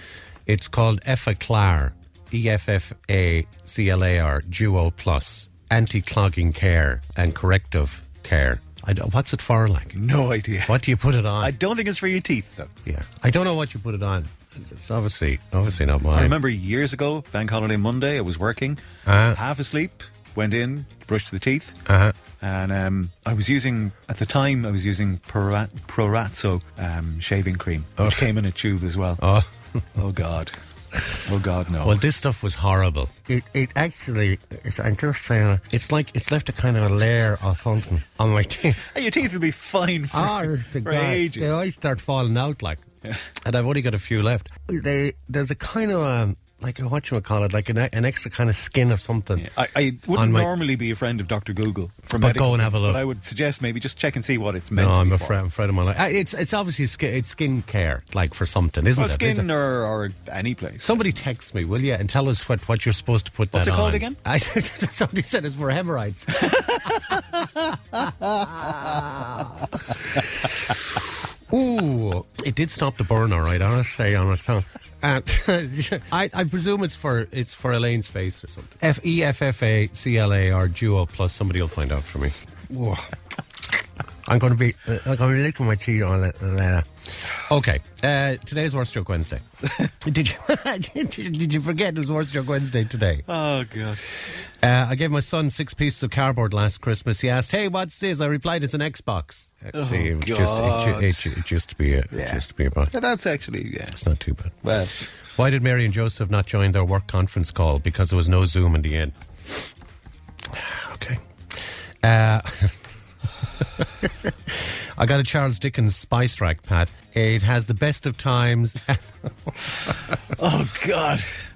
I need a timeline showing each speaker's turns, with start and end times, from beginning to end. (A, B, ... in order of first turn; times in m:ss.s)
0:00.5-0:10.0 A
0:09.9-0:10.8 B
0:10.7-0:11.5 A
0:11.4-0:12.7 B
0:12.8-0:16.4 A
0:16.1-0:21.8 B
0:19.1-0:19.4 A
0:21.8-0:22.1 A
0:22.4-0:29.2 B
0:28.0-0:28.2 A
0:29.2-0:29.5 A
0:29.9-0:30.5 B
0:31.2-0:32.0 B
0:31.8-0:38.8 A
0:38.8-0:41.6 B
0:40.1-0:42.8 A
0:43.4-0:49.5 A
0:49.4-0:55.4 B
0:50.1-0:50.5 A
0:52.1-0:53.0 A
0:54.7-0:59.5 A
0:58.9-1:01.1 B
1:00.8-1:07.1 A
1:03.5-1:04.2 B
1:06.4-1:07.2 B
1:08.4-1:09.4 A
1:08.4-1:08.7 B
1:11.5-1:23.1 A
1:24.2-1:33.2 A
1:33.3-1:34.0 B
1:34.6-1:42.9 A
1:39.7-1:41.4 B
1:42.1-1:44.0 B
1:43.9-1:44.6 A
1:44.6-1:45.1 B
1:45.4-1:49.1 A
1:50.5-1:51.2 A
1:52.0-1:52.8 A
1:53.6-1:59.3 A
2:00.3-2:01.3 B